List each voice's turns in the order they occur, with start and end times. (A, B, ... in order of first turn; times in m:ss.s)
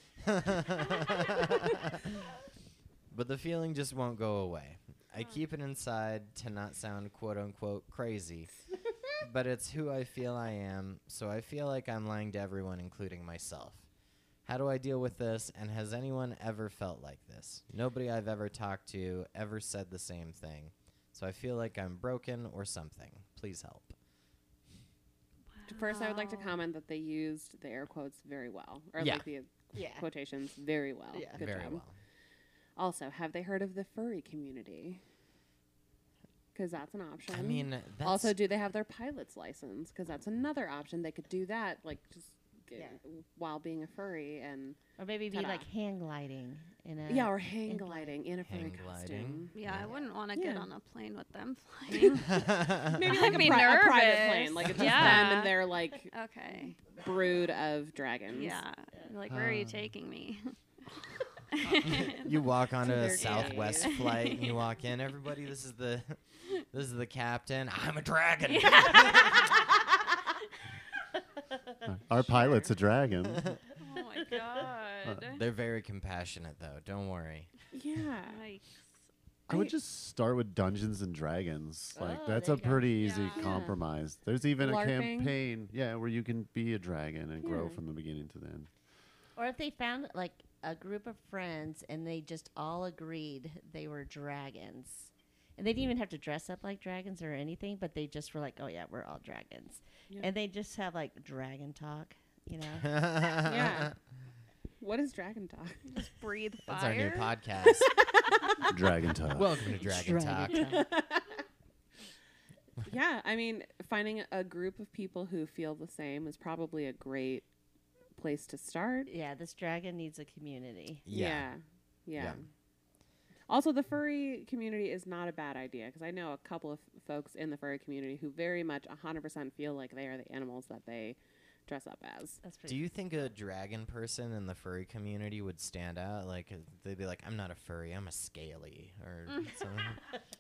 0:00.2-0:02.1 A
0:03.1-0:08.5 A
0:09.2-0:13.9 A
0:14.4-0:24.0 A
0:25.5-0:26.6 B
0:25.7-0:31.8 C
0:29.0-0:29.3 A
0:29.7-0:30.1 D
0:31.1-0:31.4 D
0:31.3-0:32.0 A
0:32.8-0:35.0 C
0:36.5-0:44.8 C
0:37.3-0:38.4 A
0:45.0-0:48.2 D
0:45.3-0:45.7 C
0:47.1-0:49.6 C
0:48.4-0:49.9 A
0:49.5-0:52.4 B
0:49.9-0:50.1 D
0:50.3-0:50.7 C
0:51.9-0:58.6 C
0:52.2-0:53.4 A
0:53.0-0:56.8 B
0:54.8-0:55.3 A
0:58.3-1:00.5 B
0:59.3-0:59.9 E
1:01.5-1:02.3 B
1:01.8-1:09.6 A
1:02.8-1:04.0 C
1:03.2-1:04.6 B
1:08.5-1:09.5 B
1:11.8-1:13.6 E
1:13.8-1:15.4 B
1:15.3-1:17.5 A
1:17.7-1:18.4 C
1:18.2-1:18.9 B
1:19.5-1:28.7 E
1:22.0-1:23.0 D
1:23.0-1:23.7 B
1:23.4-1:23.8 C
1:24.6-1:25.4 C
1:27.4-1:27.8 C
1:29.4-1:42.9 D
1:42.8-1:43.9 A
1:43.4-1:43.9 C
1:44.8-1:45.9 C
1:45.9-1:47.3 B
1:46.6-1:47.9 A
1:47.6-1:48.7 C
1:48.7-1:49.5 E
1:49.3-1:50.7 A
1:49.8-1:50.9 D
1:50.6-1:51.4 C
1:52.8-1:57.4 C
1:58.2-1:59.1 C
1:59.1-2:01.0 D
2:01.1-2:01.5 A
2:01.1-2:02.4 C
2:02.2-2:02.4 A
2:03.5-2:12.4 C
2:12.4-2:12.9 D
2:12.7-2:20.0 A